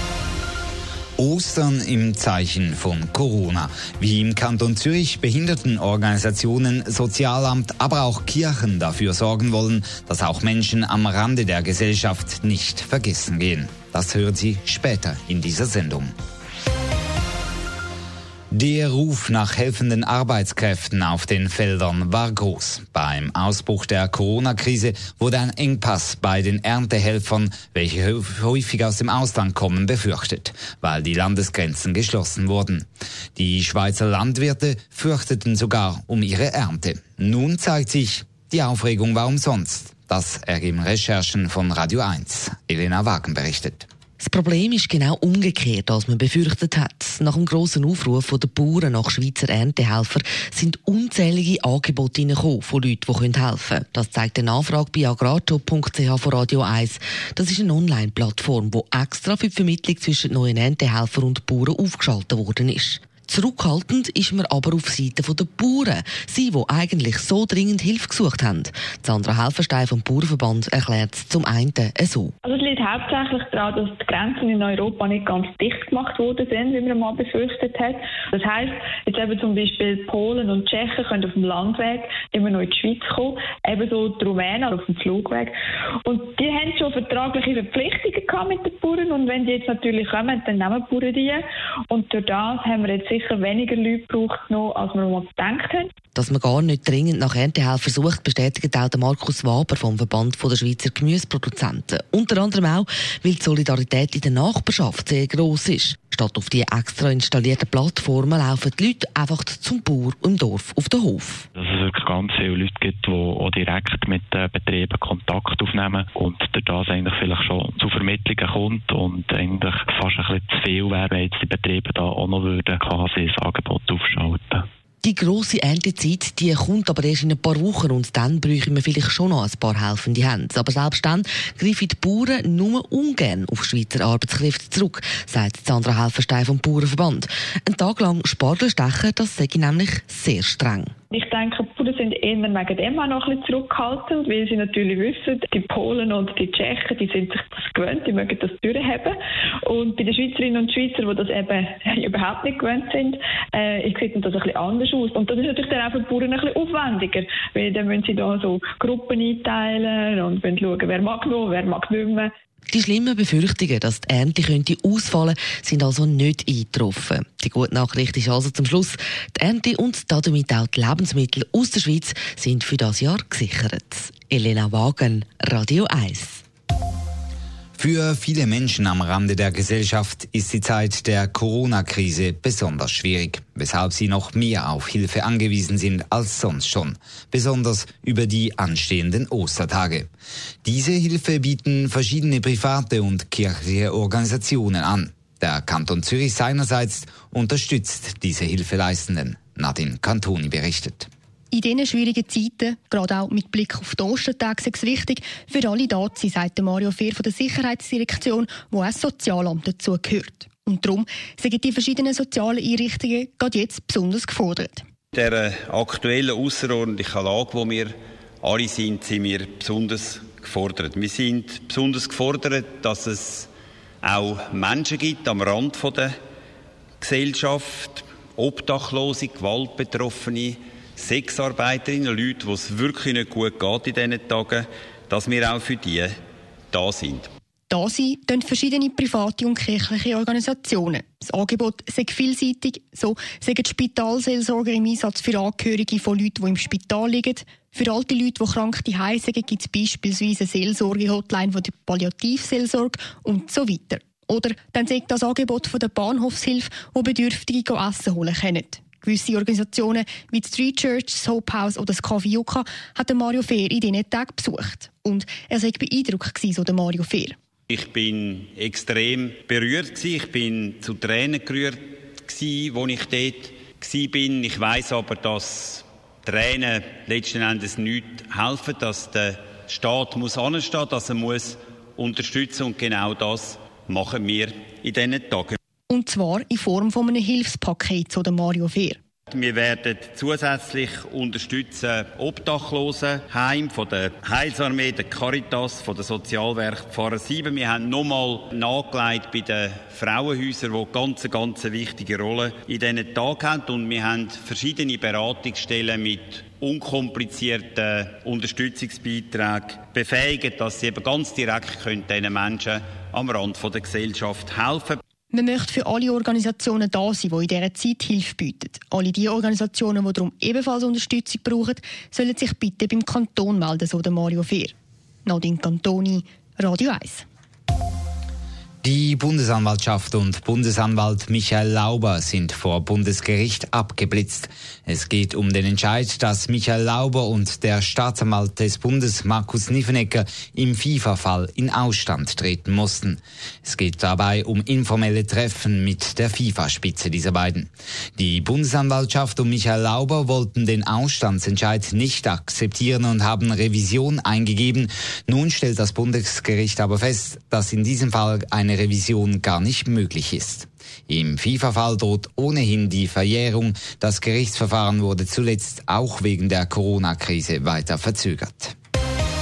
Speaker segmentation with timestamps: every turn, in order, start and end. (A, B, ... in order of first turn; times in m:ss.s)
0:01.2-0:16.1 A
0:18.5-0:43.9 A
0:44.2-1:12.3 B
1:12.4-1:25.5 C
1:26.0-1:35.9 C
1:36.2-1:51.5 B
1:51.6-2:04.6 D
2:05.0-2:20.9 B
2:21.1-2:29.2 C
2:29.7-2:42.3 C
2:42.7-2:56.4 B
2:57.8-3:10.1 A
3:10.6-3:21.1 A
3:21.5-3:34.8 E
3:35.2-3:43.5 F
3:44.0-3:46.1 F
3:47.0-3:56.1 F
3:56.7-3:57.3 F
3:57.7-4:27.4 E
4:27.7-4:45.6 F
4:45.9-4:49.0 E
4:49.3-5:15.0 F
5:15.3-5:24.7 E
5:25.2-5:27.3 E
5:28.8-6:08.8 A